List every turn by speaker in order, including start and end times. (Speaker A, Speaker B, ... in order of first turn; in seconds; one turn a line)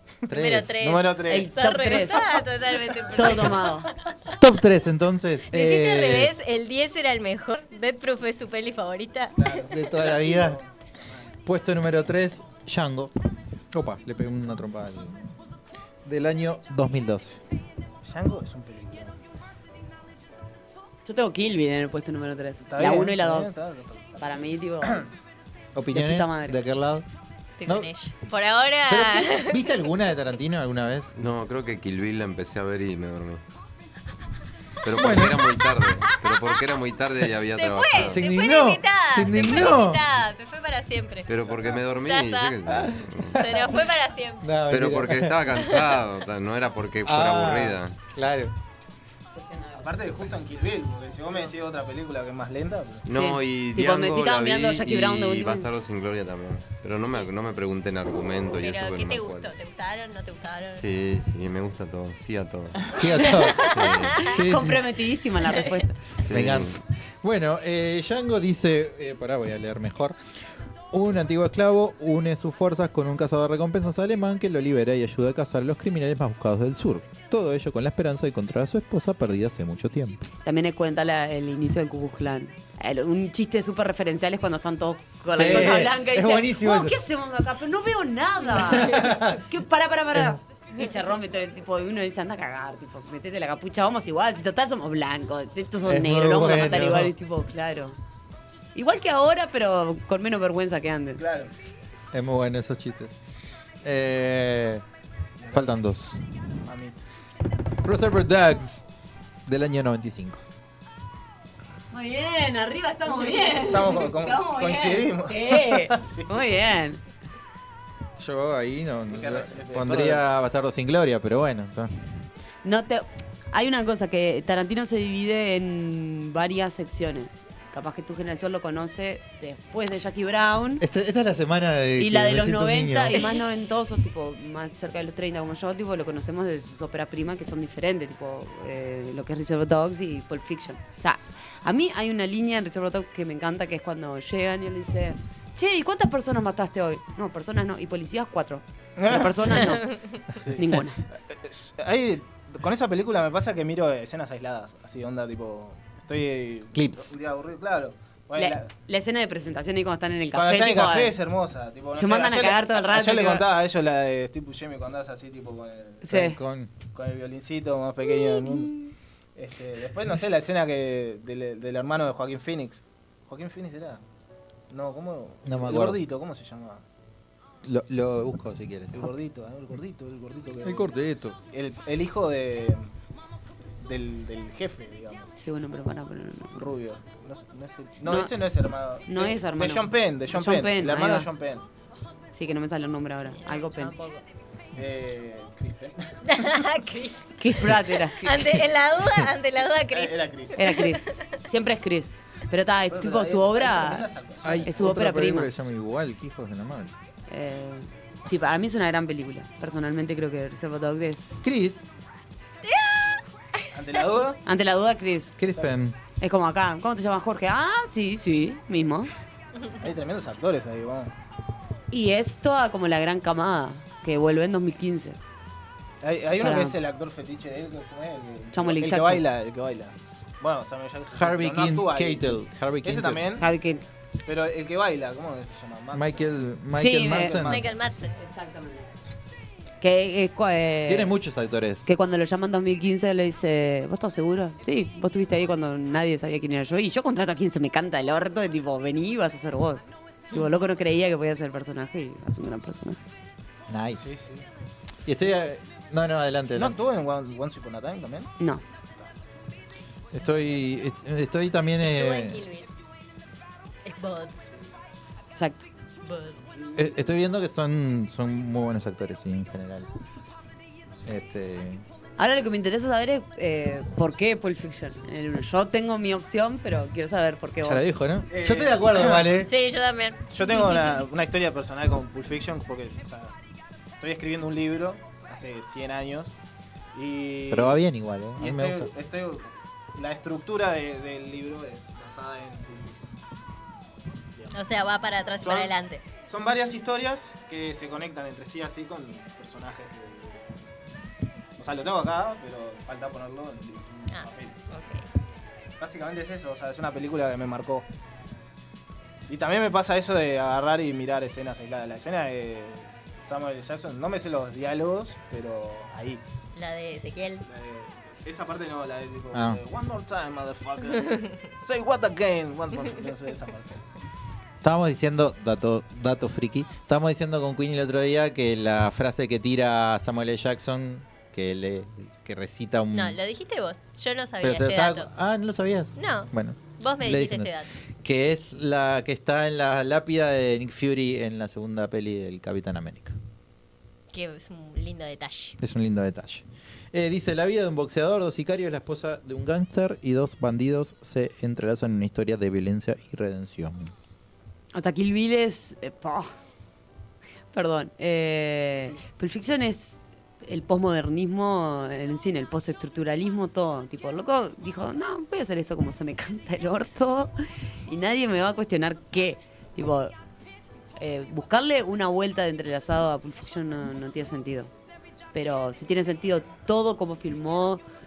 Speaker A: 0.3-0.8
Speaker B: 0.3-4.3
Speaker C: 0.8-1.6
Speaker D: 1.2-2.3
Speaker D: 3.1-3.9
Speaker A: 4.4-6.3
Speaker B: 5.5-9.6
Speaker C: 9.4-11.2
Speaker A: 9.6-10.6
Speaker A: 11.4-13.1
Speaker A: 13.7-15.3
Speaker A: 16.1-17.4
Speaker C: 18.0-19.2
Speaker D: 21.1-23.6
Speaker C: 22.6-25.1
Speaker D: 24.2-25.0
Speaker A: 25.7-27.1
Speaker D: 25.9-26.6
Speaker B: 27.6-29.6
Speaker A: 27.6-27.9
Speaker A: 28.9-31.1
Speaker E: 31.1-33.4
Speaker E: 34.8-38.2
Speaker A: 34.9-35.5
Speaker B: 36.3-36.5
Speaker B: 37.5-41.3
Speaker A: 37.9-40.0
Speaker E: 41.3-43.4
Speaker C: 41.4-41.8
Speaker B: 42.0-42.5
Speaker B: 43.3-44.5
Speaker A: 44.4-45.4
Speaker E: 44.7-47.9
Speaker B: 45.6-45.9
Speaker A: 47.0-48.5
Speaker D: 49.3-50.0
Speaker C: 49.8-53.1
Speaker E: 53.0-59.5
Speaker D: 53.1-55.7
Speaker B: 58.5-60.8
Speaker E: 60.7-62.9
Speaker A: 62.9-64.8
Speaker D: 63.2-63.5
Speaker B: 63.6-64.3
Speaker E: 63.7-64.2
Speaker D: 64.3-66.0
Speaker E: 66.2-66.8
Speaker A: 66.3-70.2
Speaker A: 70.9-80.3
Speaker D: 80.4-98.0
Speaker A: 85.3-87.0
Speaker A: 88.5-89.4
Speaker A: 95.8-97.1
Speaker D: 98.7-101.2
Speaker C: 101.2-101.5
Speaker A: 102.1-103.2
Speaker A: 103.8-104.8
Speaker C: 105.4-105.7
Speaker A: 105.5-106.3
Speaker C: 106.6-107.0
Speaker A: 107.8-108.8
Speaker A: 109.5-110.4
Speaker D: 111.9-117.0
Speaker C: 113.6-116.3
Speaker A: 118.2-122.2
Speaker C: 119.1-120.2
Speaker D: 122.6-130.8
Speaker A: 130.8-133.2
Speaker D: 132.0-149.9
Speaker C: 149.0-149.7
Speaker C: 150.4-158.7
Speaker D: 150.6-151.0
Speaker A: 156.7-157.1
Speaker D: 158.4-161.2
Speaker C: 160.3-166.1
Speaker D: 161.9-163.5
Speaker D: 166.0-166.4
Speaker A: 166.1-166.7
Speaker C: 166.9-168.8
Speaker D: 168.1-168.9
Speaker C: 169.4-174.0
Speaker C: 174.7-176.8
Speaker A: 175.4-176.0
Speaker A: 177.6-179.0
Speaker C: 178.9-180.9
Speaker A: 180.6-181.4
Speaker C: 181.5-182.9
Speaker C: 183.8-185.3
Speaker D: 185.4-186.7
Speaker C: 186.5-191.7
Speaker D: 188.0-188.3
Speaker D: 189.1-191.3
Speaker D: 192.3-193.9
Speaker B: 193.4-194.2
Speaker C: 194.7-196.5
Speaker B: 196.2-197.3
Speaker D: 197.4-198.3
Speaker B: 198.2-201.3
Speaker C: 199.9-200.8
Speaker D: 200.6-204.1
Speaker C: 202.9-204.9
Speaker A: 204.4-206.9
Speaker D: 204.6-205.5
Speaker D: 207.3-211.4
Speaker A: 211.4-211.9
Speaker B: 212.6-213.7
Speaker C: 213.7-214.4
Speaker D: 214.4-215.4
Speaker A: 215.4-216.0
Speaker D: 216.1-219.1
Speaker C: 219.8-221.1
Speaker D: 221.9-225.2
Speaker C: 226.0-233.4
Speaker D: 226.4-226.8
Speaker D: 228.5-229.2
Speaker A: 231.1-233.3
Speaker D: 233.4-233.8
Speaker C: 234.3-236.3
Speaker A: 235.9-237.6
Speaker D: 236.7-237.4
Speaker C: 237.0-237.8
Speaker B: 237.4-238.2
Speaker D: 238.2-238.9
Speaker D: 239.8-241.1
Speaker A: 240.9-241.9
Speaker D: 241.9-253.0
Speaker A: 253.7-254.2
Speaker C: 254.0-254.4
Speaker A: 255.1-256.8
Speaker C: 256.5-258.3
Speaker A: 260.1-262.4
Speaker B: 261.8-262.7
Speaker B: 263.8-264.4
Speaker D: 265.4-265.6
Speaker B: 266.0-266.4
Speaker A: 266.8-269.9
Speaker A: 271.0-271.8
Speaker D: 272.2-277.8
Speaker A: 277.6-279.5
Speaker C: 278.3-279.3
Speaker B: 279.4-281.0
Speaker C: 280.3-283.3
Speaker C: 284.0-286.3
Speaker C: 286.9-287.8
Speaker A: 287.5-288.9
Speaker C: 288.4-293.1
Speaker C: 294.4-294.7
Speaker B: 294.5-296.0
Speaker C: 295.4-295.7
Speaker C: 296.2-300.6
Speaker C: 301.6-304.6
Speaker B: 304.1-305.1
Speaker C: 305.8-307.9
Speaker C: 309.3-316.2
Speaker B: 316.6-317.4
Speaker C: 317.4-323.8
Speaker A: 319.3-319.6
Speaker B: 321.0-321.4
Speaker A: 324.6-333.2
Speaker B: 332.9-335.1
Speaker A: 334.4-337.5
Speaker B: 335.9-337.7
Speaker A: 338.0-343.1
Speaker B: 344.1-345.6
Speaker A: 345.6-353.9
Speaker D: 354.7-356.3
Speaker D: 357.5-367.3
Speaker D: 367.9-370.1
Speaker D: 370.9-374.7
Speaker D: 375.3-377.8